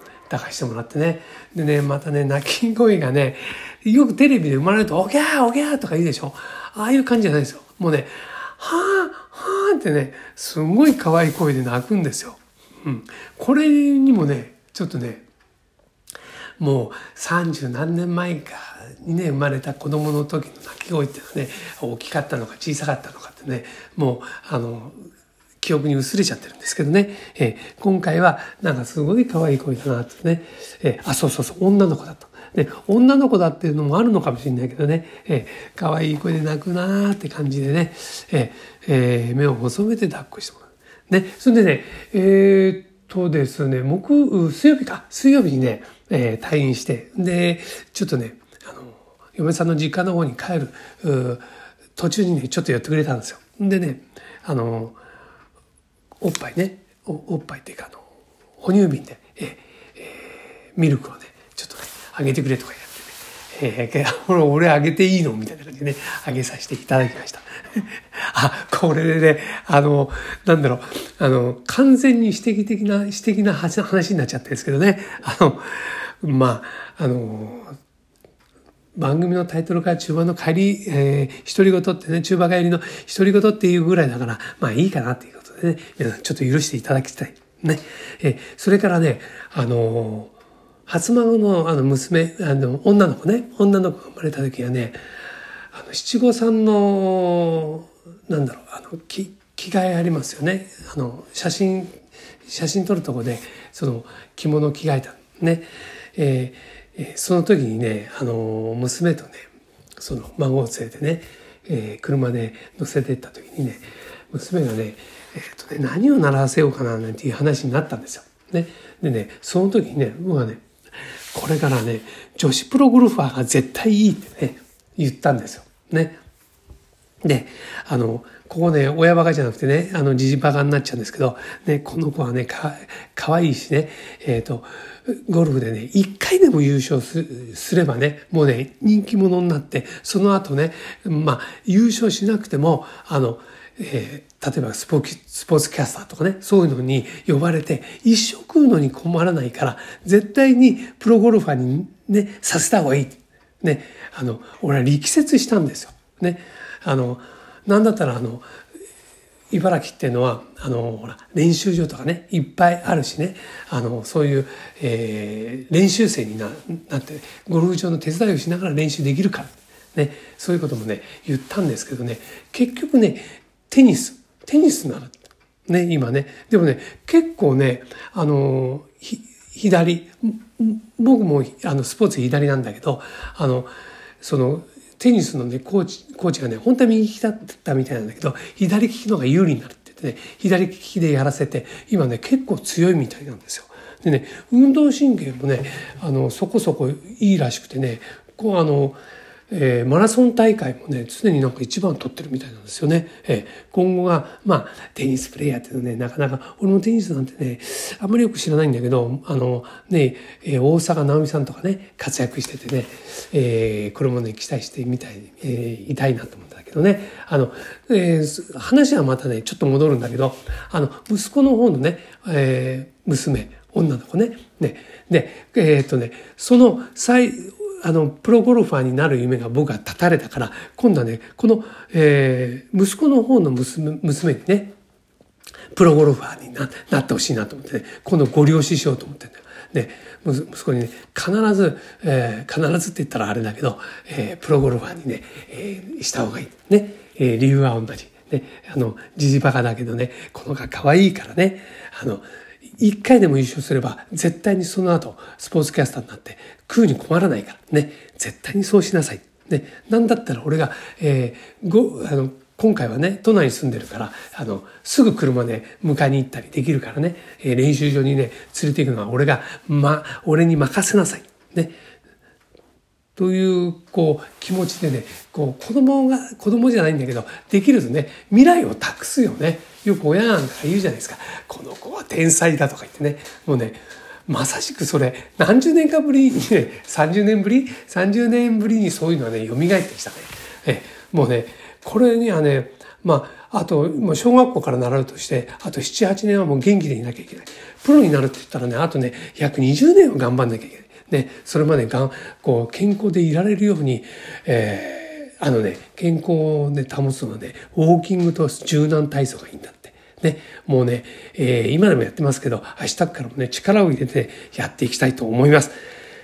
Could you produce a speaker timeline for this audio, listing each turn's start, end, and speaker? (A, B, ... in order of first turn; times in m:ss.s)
0:00.3-0:15.2 A
0:16.6-0:25.0 A
0:25.6-0:51.4 A
0:52.0-0:55.0 A
0:56.2-0:58.0 A
0:58.6-1:17.8 A
1:19.0-1:30.3 A
1:30.9-1:35.0 A
1:35.7-2:00.6 A
2:01.3-2:06.2 A
2:07.2-2:38.4 A
2:39.5-3:19.0 A
3:19.5-3:54.7 A
3:55.7-4:12.2 A
4:12.8-4:31.8 A
4:33.2-5:15.7 A